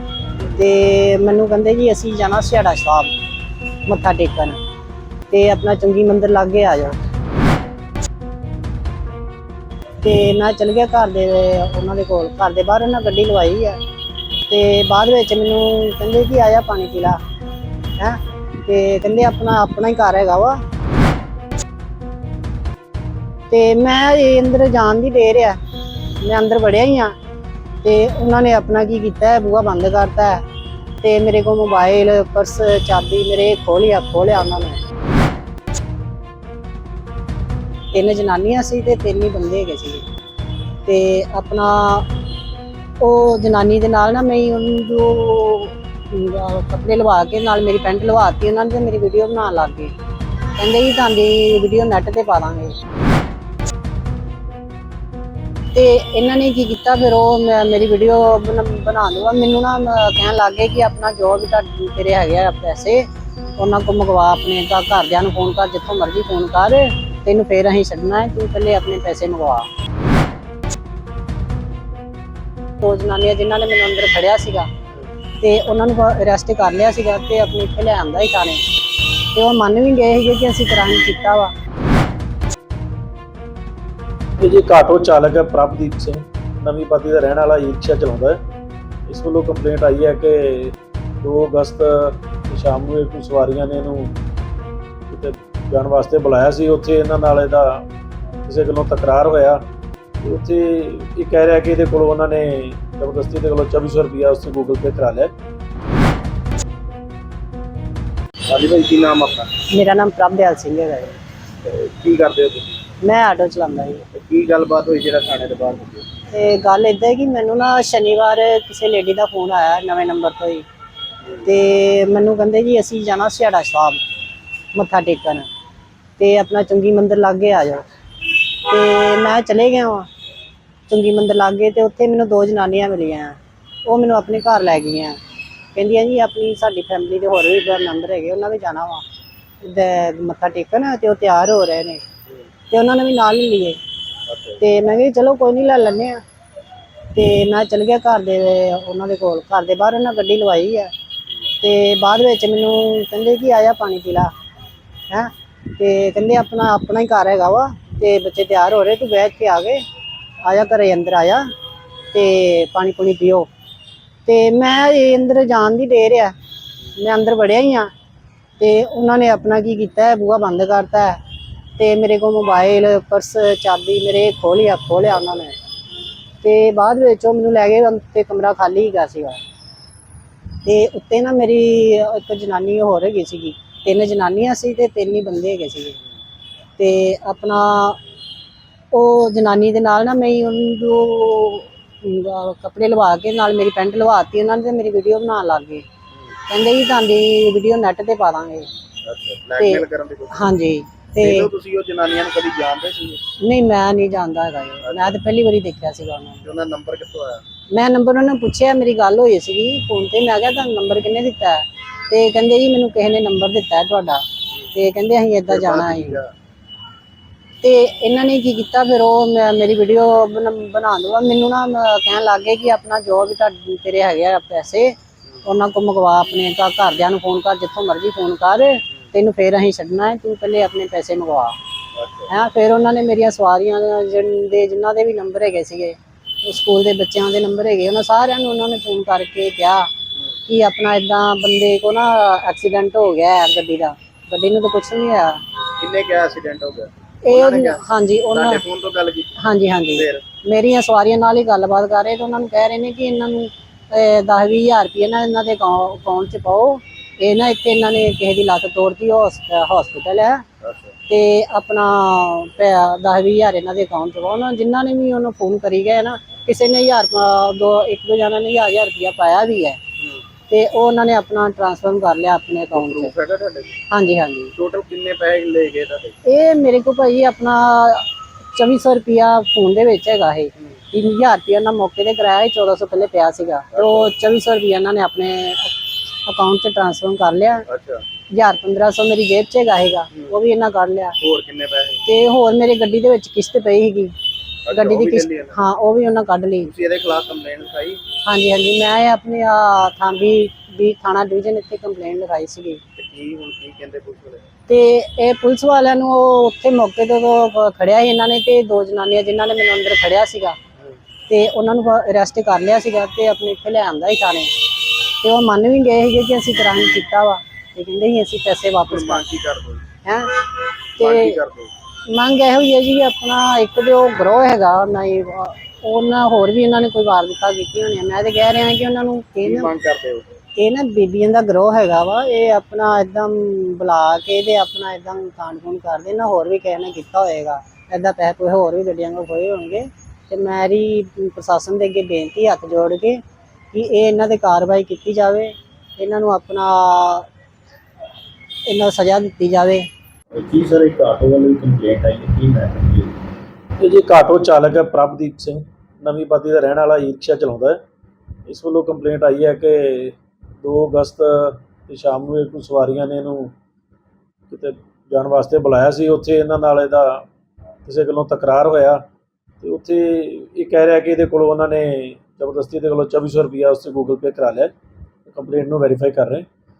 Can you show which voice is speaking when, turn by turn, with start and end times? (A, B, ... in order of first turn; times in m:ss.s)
0:00.4-0:03.1 A
0:03.9-0:04.6 A
0:05.3-0:07.0 A
0:10.0-0:13.8 A
0:14.5-0:17.2 A
0:18.0-0:20.6 A
0:23.5-0:25.6 A
0:26.2-0:27.2 A
0:27.8-0:30.4 A
0:31.0-0:34.8 A
0:37.9-0:40.0 A
0:40.8-0:42.1 A
0:43.0-0:49.9 A
0:50.6-0:52.7 A
0:55.7-1:03.0 A
1:03.6-1:09.7 A
1:12.8-1:14.7 A
1:15.4-1:18.6 A
1:19.3-1:21.5 A
1:24.4-1:28.4 B
1:29.1-1:34.1 B
1:35.1-1:37.9 B
1:38.5-1:39.7 B
1:40.2-1:45.3 B
1:48.5-1:49.5 C
1:49.7-1:51.2 A
1:51.6-1:52.8 C
1:53.0-1:54.0 A
1:54.1-1:56.0 C
1:56.3-2:00.7 A
2:01.4-2:04.0 A
2:04.7-2:05.5 A
2:06.2-2:07.8 A
2:08.7-2:10.1 A
2:10.9-2:15.2 A
2:15.8-2:19.0 A
2:19.6-2:22.0 A
2:22.7-2:23.8 A
2:24.3-2:24.6 C
2:24.6-2:26.2 A
2:27.1-2:30.9 A
2:31.6-2:34.3 A
2:35.1-2:39.8 A
2:40.4-2:41.4 A
2:42.1-2:43.5 A
2:44.3-2:46.3 A
2:47.0-2:47.9 A
2:48.6-2:51.2 A
2:51.8-2:55.6 A
2:56.4-2:59.4 A
3:00.6-3:06.0 A
3:06.8-3:08.0 A
3:08.9-3:15.8 A
3:16.5-3:18.7 A
3:19.0-3:20.5 C
3:19.6-3:21.5 A
3:21.2-3:23.2 C
3:23.4-3:26.4 A
3:24.8-3:25.1 C
3:26.4-3:27.4 C
3:27.7-3:34.2 A
3:34.7-3:36.2 A
3:35.5-3:36.3 C
3:37.6-3:51.6 A
3:52.0-3:52.3 C
3:52.3-3:59.9 A
4:00.5-4:05.4 A
4:05.8-4:10.2 C
4:07.3-4:08.6 A
4:09.4-4:20.4 A
4:20.6-4:21.0 C
4:21.1-4:29.8 A
4:30.5-4:33.1 A
4:32.7-4:33.7 C
4:33.9-4:34.5 A
4:34.6-4:36.2 C
4:36.2-4:47.6 A
4:43.7-4:44.1 C
4:47.7-4:48.0 C
4:48.3-4:51.2 A
4:51.2-4:52.0 C
4:52.0-4:54.1 A
4:54.7-4:55.6 C
4:54.7-4:56.7 A
4:56.6-4:58.0 C
4:58.2-5:02.8 A
5:03.0-5:04.5 C
5:04.7-5:10.6 A
5:11.3-5:14.5 A
5:15.2-5:19.2 A
5:18.9-5:19.8 C
5:20.0-5:20.3 A
5:21.0-5:21.4 A
5:21.0-5:21.7 C
5:22.1-5:29.7 A
5:29.4-5:30.4 C
5:30.6-5:43.2 A
5:43.7-5:47.3 A
5:48.7-5:49.9 A
5:50.3-5:53.2 D
5:53.8-5:57.8 B
5:58.5-6:03.5 B
6:04.5-6:07.3 B
6:07.8-6:09.0 B
6:09.6-6:14.7 B
6:15.3-6:16.5 B